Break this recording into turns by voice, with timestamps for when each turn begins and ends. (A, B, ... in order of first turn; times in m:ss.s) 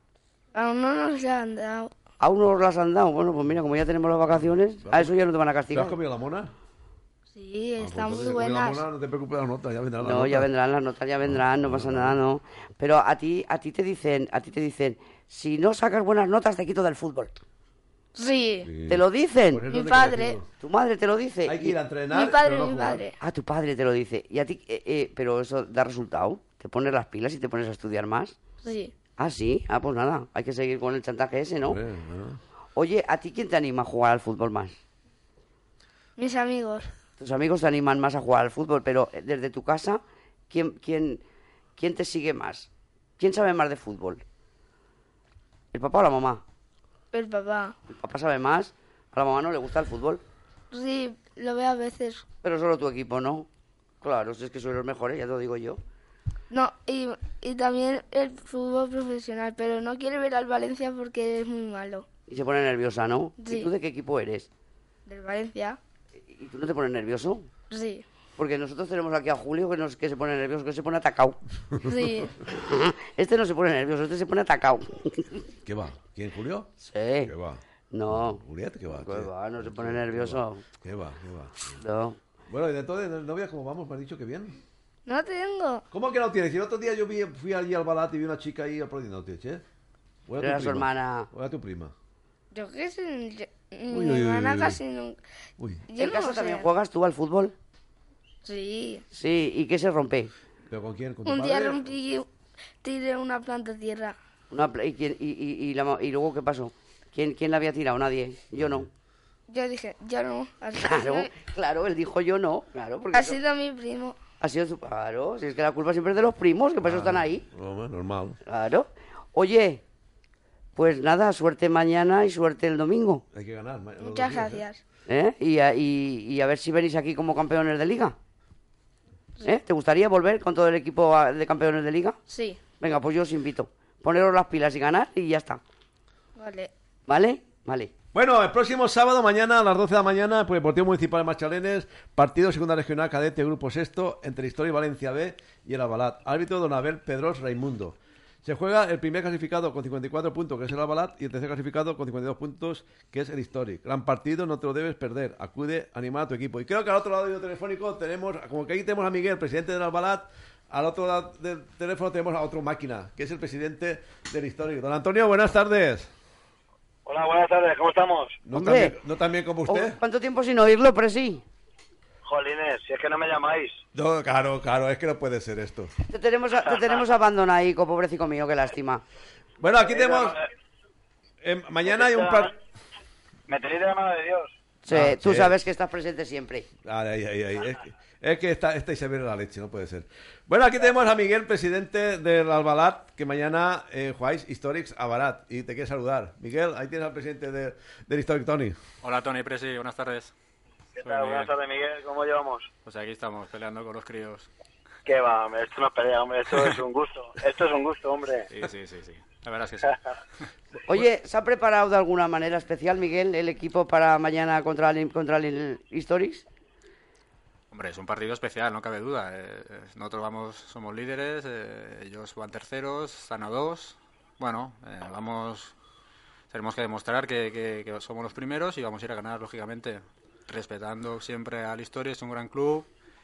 0:00.5-0:02.0 A
0:02.2-0:06.0 B
0:04.8-0:05.1 C
0:05.7-0:06.5 C
0:07.3-0:08.8 A
0:07.8-0:10.5 C
0:10.0-0:17.4 B
0:11.2-0:12.2 C
0:18.2-0:18.7 A
0:18.6-0:20.4 C
0:18.9-0:19.7 B
0:19.7-0:20.4 A
0:20.6-0:21.8 B
0:21.4-0:23.0 C
0:22.1-0:23.2 A
0:23.2-0:28.4 B
0:28.6-0:28.9 A
0:29.2-0:31.8 B
0:31.6-0:32.4 C
0:32.7-0:34.8 B
0:36.2-0:36.9 A
0:37.2-0:41.2 B
0:41.8-0:42.7 B
0:43.2-0:44.2 B
0:45.7-0:46.4 B
0:47.1-0:47.7 A
0:47.9-0:50.2 B
0:50.7-0:52.2 A
0:52.4-0:53.5 B
0:54.0-0:55.8 B
0:56.5-1:02.0 A
1:02.3-1:04.5 B
1:03.4-1:03.7 A
1:05.1-1:05.8 A
1:06.2-1:07.5 B
1:07.7-1:08.0 A
1:08.4-1:11.4 B
1:11.8-1:12.3 A
1:12.4-1:15.4 B
1:15.6-1:16.7 C
1:16.8-1:17.3 B
1:17.2-1:21.7 C
1:17.9-1:20.6 B
1:21.8-1:22.2 B
1:22.5-1:24.6 C
1:25.1-1:25.8 A
1:25.9-1:29.6 C
1:30.3-1:31.9 C
1:30.4-1:31.3 B
1:32.5-1:35.2 A
1:33.9-1:34.8 C
1:35.6-1:35.8 C
1:35.9-1:36.7 A
1:36.0-1:37.5 B
1:38.4-1:39.0 A
1:39.1-1:40.3 B
1:40.7-1:41.9 C
1:41.2-1:42.2 A
1:42.8-1:44.2 A
1:44.5-1:48.9 B
1:48.6-1:48.9 C
1:49.5-1:51.3 A
1:50.8-1:53.4 B
1:53.1-1:54.2 A
1:54.4-1:57.4 B
1:56.8-1:58.4 C
1:58.4-1:59.8 B
2:00.8-2:03.2 B
2:03.3-2:04.6 C
2:04.0-2:04.8 A
2:05.1-2:08.2 B
2:09.4-2:12.2 B
2:12.3-2:12.6 A
2:12.8-2:15.6 B
2:16.4-2:16.7 A
2:17.1-2:17.9 B
2:18.1-2:46.1 C
2:47.0-2:48.4 D
2:48.4-2:50.0 C
2:48.5-2:48.9 B
2:49.7-2:51.4 B
2:52.2-2:53.8 D
2:53.9-2:55.9 C
2:56.1-2:59.0 B
2:59.6-3:00.4 C
2:59.8-3:00.4 D
3:01.4-3:02.5 C
3:01.8-3:02.5 D
3:03.5-3:04.5 D
3:04.8-3:06.7 B
3:04.9-3:05.6 C
3:06.8-3:18.8 C
3:19.0-3:20.3 E
3:21.0-3:22.7 D
3:21.0-3:21.5 E
3:22.8-3:24.5 E
3:25.0-3:28.5 D
3:28.5-3:30.0 E
3:30.9-3:36.4 B
3:37.7-3:45.7 E
3:46.5-3:52.9 E